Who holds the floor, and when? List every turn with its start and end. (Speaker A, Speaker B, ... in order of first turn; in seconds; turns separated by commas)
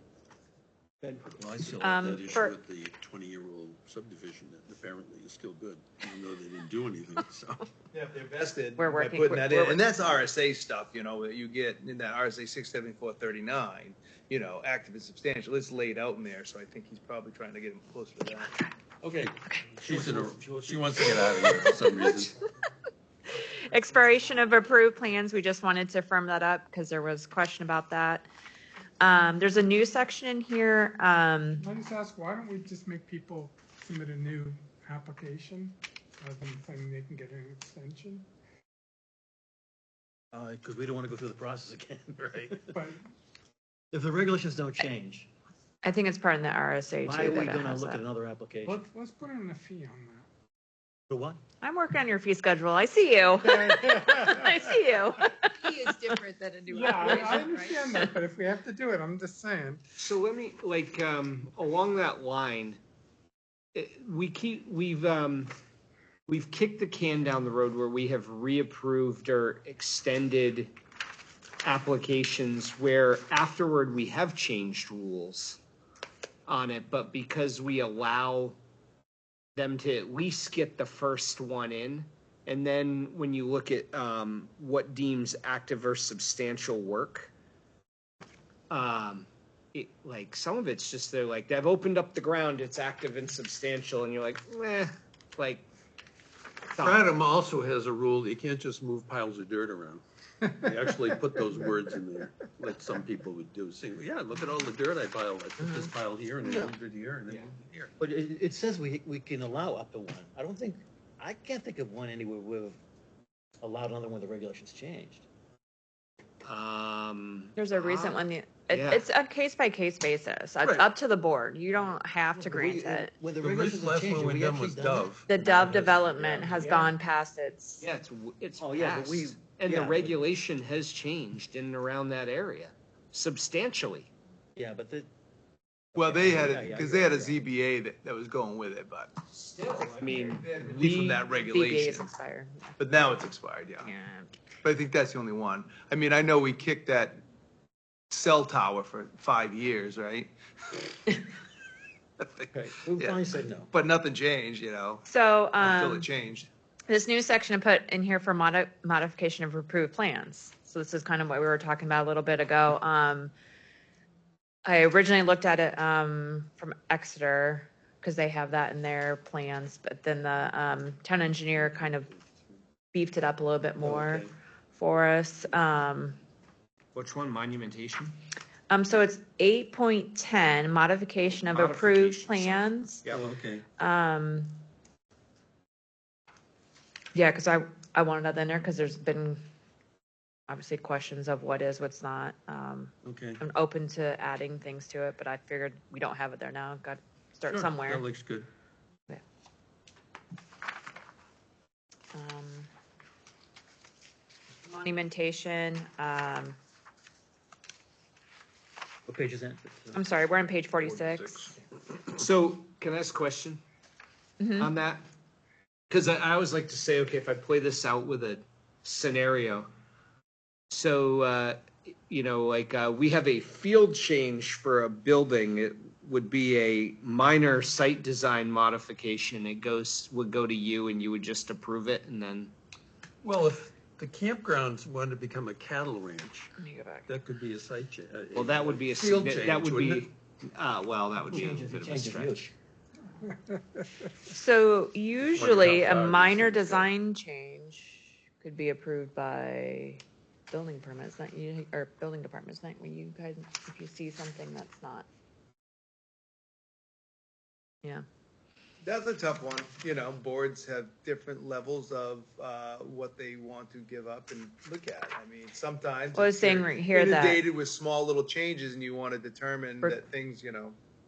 Speaker A: 1.0-2.1, Speaker B: 1.6-7.7, Speaker C: 1.8-2.5, Speaker D: 7.9-18.5, Speaker C: 8.8-10.2, Speaker B: 19.0-22.3, Speaker A: 19.7-22.1, Speaker C: 23.4-28.3, Speaker C: 29.0-31.6, Speaker E: 31.6-38.3, Speaker A: 40.3-42.8, Speaker E: 42.7-43.0, Speaker A: 43.9-45.3, Speaker C: 45.8-48.0, Speaker A: 47.0-48.9, Speaker E: 48.6-50.3, Speaker A: 51.1-51.4, Speaker C: 51.6-56.2, Speaker E: 53.4-54.7, Speaker F: 55.7-57.8, Speaker E: 56.7-59.8, Speaker C: 56.8-58.1, Speaker G: 60.0-62.8, Speaker G: 63.7-65.5, Speaker G: 66.3-70.7, Speaker G: 71.6-75.6, Speaker G: 76.5-78.6, Speaker G: 79.5-87.3, Speaker G: 88.7-95.6, Speaker G: 96.7-97.1, Speaker B: 96.8-100.0, Speaker B: 100.6-107.9, Speaker D: 106.4-106.7, Speaker G: 107.3-107.5, Speaker A: 108.0-112.8, Speaker A: 113.6-115.2, Speaker G: 116.4-119.0, Speaker C: 117.5-123.1, Speaker A: 122.3-126.9, Speaker B: 123.4-125.3, Speaker C: 125.3-127.8, Speaker G: 127.8-134.1, Speaker A: 128.6-130.2, Speaker A: 134.6-135.1, Speaker D: 135.9-139.1, Speaker A: 135.9-137.4, Speaker G: 139.3-141.2, Speaker C: 140.0-140.4, Speaker D: 140.7-142.1, Speaker C: 141.1-143.2, Speaker D: 142.8-143.9, Speaker C: 143.8-144.3, Speaker D: 144.6-147.2, Speaker D: 148.1-150.3, Speaker D: 152.2-155.1, Speaker A: 152.5-153.7, Speaker C: 155.1-156.1, Speaker D: 155.6-156.5, Speaker C: 156.9-163.3, Speaker C: 164.6-172.1, Speaker C: 172.9-176.2, Speaker B: 173.8-174.3, Speaker G: 176.9-178.2, Speaker C: 178.7-183.0, Speaker G: 181.4-183.2, Speaker B: 183.1-183.6, Speaker C: 183.8-184.6, Speaker C: 187.1-189.4, Speaker C: 190.5-198.0, Speaker B: 193.1-193.4, Speaker B: 197.5-198.5, Speaker C: 202.1-202.7, Speaker C: 204.7-206.6, Speaker A: 209.1-210.0, Speaker C: 209.9-211.5, Speaker D: 211.0-211.5, Speaker G: 212.1-213.6, Speaker C: 214.4-214.7, Speaker G: 214.6-215.0, Speaker G: 215.9-219.7, Speaker G: 220.7-232.5, Speaker B: 233.2-236.5, Speaker C: 236.6-237.1, Speaker B: 237.1-240.1, Speaker G: 238.3-242.4, Speaker A: 241.3-242.5, Speaker E: 243.3-244.1, Speaker C: 244.3-255.1, Speaker B: 245.2-246.9, Speaker D: 258.8-270.8, Speaker C: 266.1-267.4